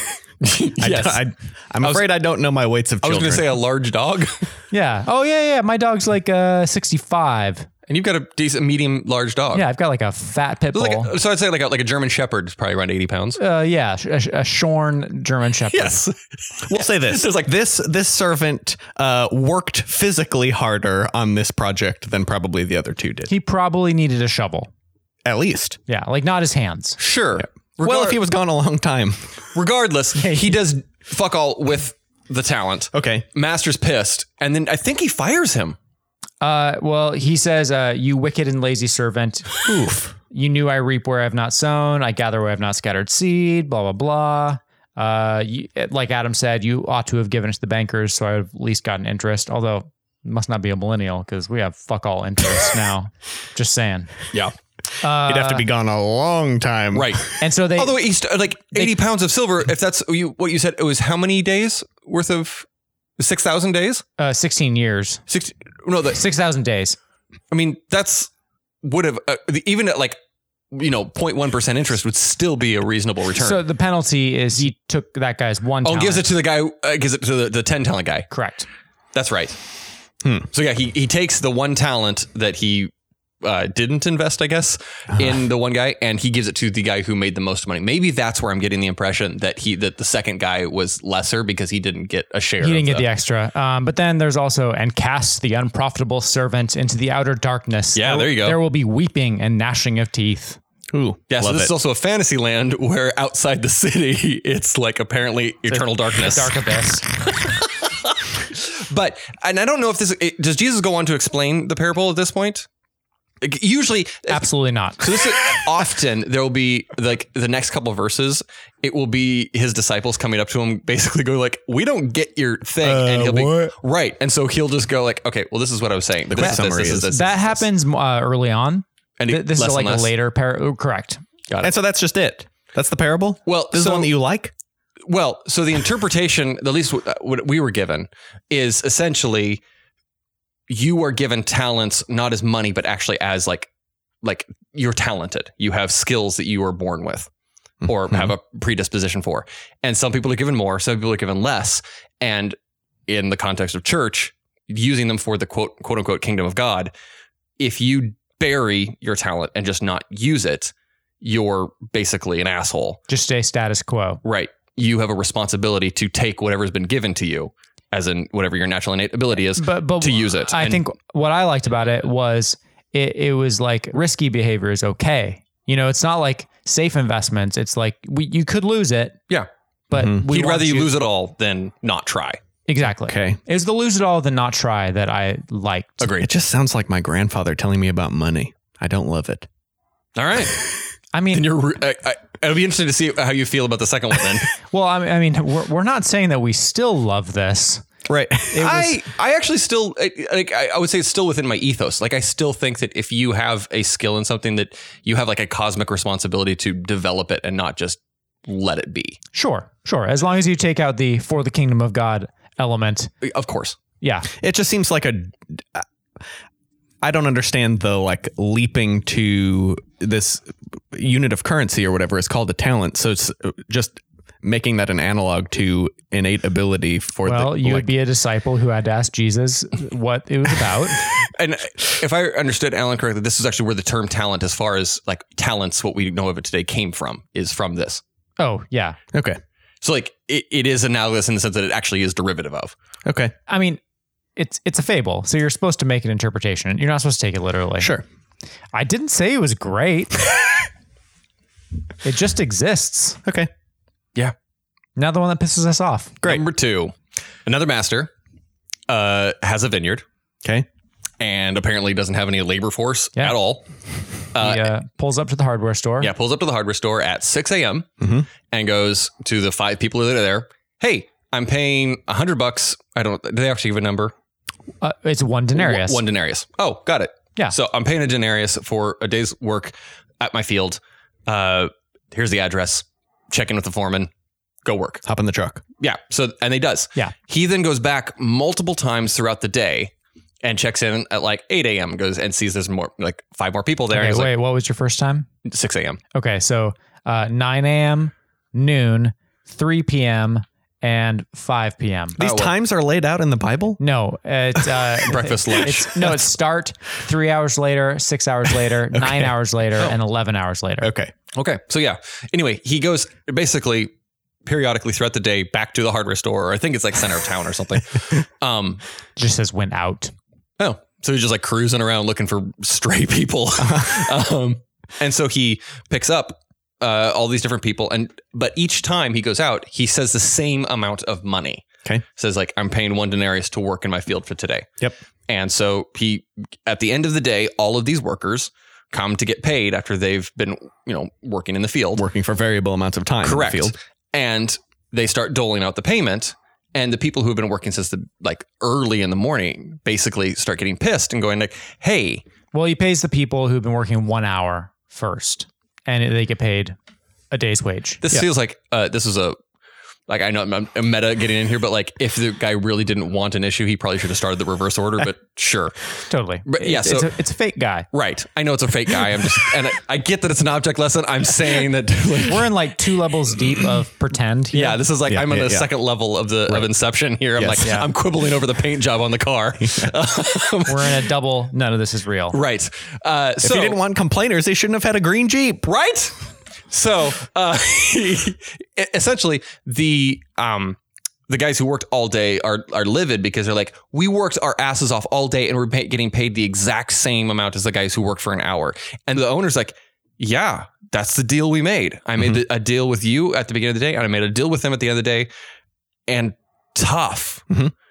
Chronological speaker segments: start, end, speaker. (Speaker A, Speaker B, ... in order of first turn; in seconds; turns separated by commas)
Speaker A: 0.4-1.2, Speaker B: 0.8-3.6, Speaker A: 1.8-2.1, Speaker A: 3.0-4.5, Speaker C: 4.7-7.7, Speaker A: 7.9-9.7, Speaker C: 9.5-11.1, Speaker A: 10.7-13.4, Speaker C: 13.4-16.0, Speaker A: 15.7-17.5, Speaker B: 16.6-23.3, Speaker C: 23.3-24.7, Speaker B: 25.2-25.8, Speaker C: 25.9-27.0, Speaker A: 27.0-28.2, Speaker B: 27.4-29.2, Speaker A: 29.6-35.8, Speaker C: 30.2-30.6, Speaker B: 32.9-33.3, Speaker C: 36.4-39.6, Speaker B: 39.6-40.1, Speaker C: 40.3-54.1, Speaker C: 55.0-55.7, Speaker B: 55.2-57.3, Speaker A: 56.9-62.7, Speaker C: 57.4-58.0, Speaker A: 63.2-64.0, Speaker C: 64.2-65.2, Speaker A: 65.3-66.2, Speaker C: 66.1-67.0, Speaker A: 67.5-68.3, Speaker A: 68.8-70.2, Speaker A: 70.7-73.6, Speaker C: 73.4-76.2, Speaker A: 75.8-78.3, Speaker C: 78.3-78.7, Speaker A: 79.1-79.6, Speaker A: 80.5-93.0, Speaker C: 92.6-100.6, Speaker A: 98.0-98.6, Speaker B: 100.9-101.7, Speaker A: 101.3-106.6, Speaker C: 105.7-107.0, Speaker A: 107.2-112.7, Speaker A: 113.4-114.5, Speaker C: 114.3-115.0, Speaker A: 115.0-127.6, Speaker B: 122.8-123.8, Speaker B: 126.3-127.2, Speaker C: 126.4-131.2, Speaker A: 129.2-130.1, Speaker B: 131.6-134.5, Speaker A: 133.5-134.1, Speaker A: 135.1-139.6, Speaker A: 140.7-143.7, Speaker A: 144.2-147.3, Speaker B: 147.8-148.3, Speaker A: 147.9-152.6, Speaker A: 153.1-156.9, Speaker A: 157.6-163.0, Speaker C: 163.1-164.2, Speaker A: 164.2-170.8, Speaker C: 169.6-179.2, Speaker C: 179.9-180.9, Speaker A: 180.0-182.4, Speaker C: 182.7-186.1, Speaker B: 183.1-183.4, Speaker A: 186.0-186.3, Speaker B: 186.2-189.5, Speaker A: 190.2-190.8, Speaker C: 191.1-191.5, Speaker A: 191.3-194.5, Speaker C: 194.7-197.8, Speaker B: 198.1-198.7, Speaker A: 198.5-209.2, Speaker C: 198.6-199.0, Speaker C: 209.3-213.1, Speaker A: 213.2-213.8, Speaker C: 214.0-214.3, Speaker B: 214.4-215.8, Speaker B: 217.0-227.9, Speaker C: 227.2-231.1, Speaker A: 231.2-238.0, Speaker C: 238.4-239.0, Speaker B: 239.1-239.4, Speaker A: 239.8-242.8, Speaker B: 243.1-243.3, Speaker C: 243.5-243.8, Speaker C: 244.4-247.9, Speaker B: 247.8-248.1, Speaker C: 248.7-250.2, Speaker C: 252.0-253.2, Speaker B: 253.2-253.5, Speaker C: 255.0-256.2, Speaker A: 256.2-256.9, Speaker A: 257.5-258.1, Speaker A: 258.9-260.0, Speaker A: 261.2-263.7, Speaker A: 264.3-264.7, Speaker C: 264.4-266.1, Speaker A: 266.0-267.9, Speaker B: 268.0-268.3, Speaker A: 268.5-274.1, Speaker C: 274.8-276.0, Speaker A: 275.6-284.1, Speaker A: 284.6-285.0, Speaker B: 285.1-285.6, Speaker A: 285.8-289.9, Speaker A: 290.4-294.3, Speaker C: 293.9-295.3, Speaker A: 295.5-296.0, Speaker C: 296.1-302.2, Speaker B: 302.2-303.8, Speaker A: 302.2-302.5, Speaker C: 303.8-310.9, Speaker A: 305.1-306.1, Speaker B: 308.9-309.3, Speaker B: 310.8-311.1, Speaker A: 311.3-313.9, Speaker A: 314.5-318.8, Speaker C: 319.2-320.1, Speaker A: 320.6-334.7, Speaker B: 323.6-324.0, Speaker A: 335.3-342.1, Speaker B: 342.0-343.8, Speaker A: 343.2-352.2, Speaker C: 352.5-356.8, Speaker C: 357.3-358.0, Speaker A: 358.0-359.4, Speaker A: 360.1-365.8, Speaker C: 366.1-367.9, Speaker A: 366.5-367.2, Speaker A: 367.9-372.5, Speaker C: 372.3-374.8, Speaker A: 374.5-381.1, Speaker B: 375.1-375.7, Speaker B: 377.4-377.7, Speaker C: 377.6-377.9, Speaker B: 379.6-379.9, Speaker C: 380.7-382.4, Speaker A: 382.3-383.8, Speaker B: 383.4-385.7, Speaker A: 385.7-386.2, Speaker A: 386.7-390.8, Speaker A: 391.3-405.3, Speaker A: 406.1-407.4, Speaker B: 407.5-407.7